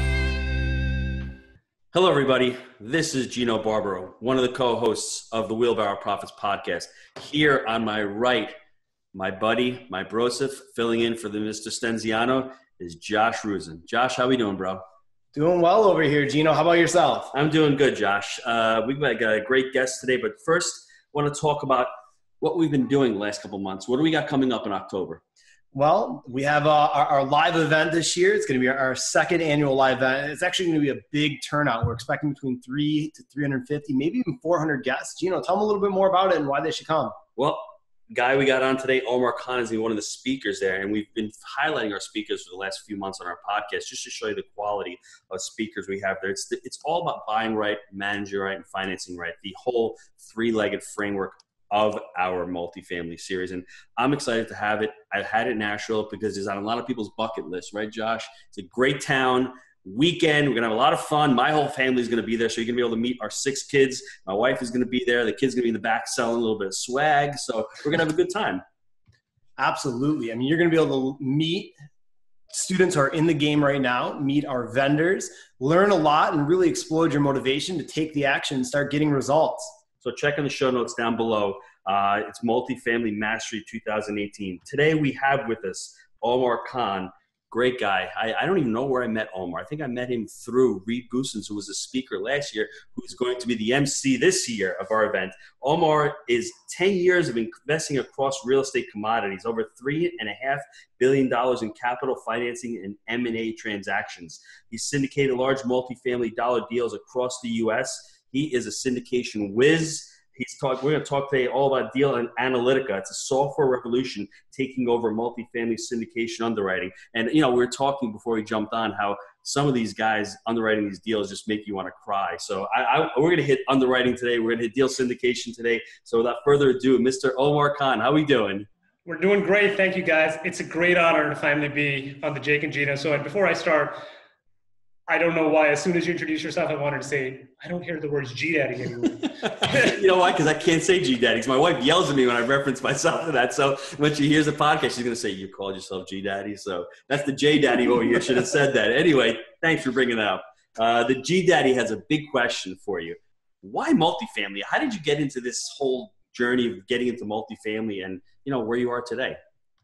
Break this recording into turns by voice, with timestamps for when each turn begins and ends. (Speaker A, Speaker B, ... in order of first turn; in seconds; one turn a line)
Speaker A: 1.9-8.6
Speaker A: 9.1-14.8
Speaker B: 15.3-17.3
Speaker A: 17.3-21.9
Speaker A: 22.4-25.2
Speaker B: 25.7-37.2
Speaker A: 37.4-68.6
Speaker B: 69.6-71.8
Speaker B: 72.5-79.7
Speaker A: 80.0-128.7
Speaker C: 129.1-134.0
Speaker C: 135.1-140.0
Speaker A: 139.6-159.4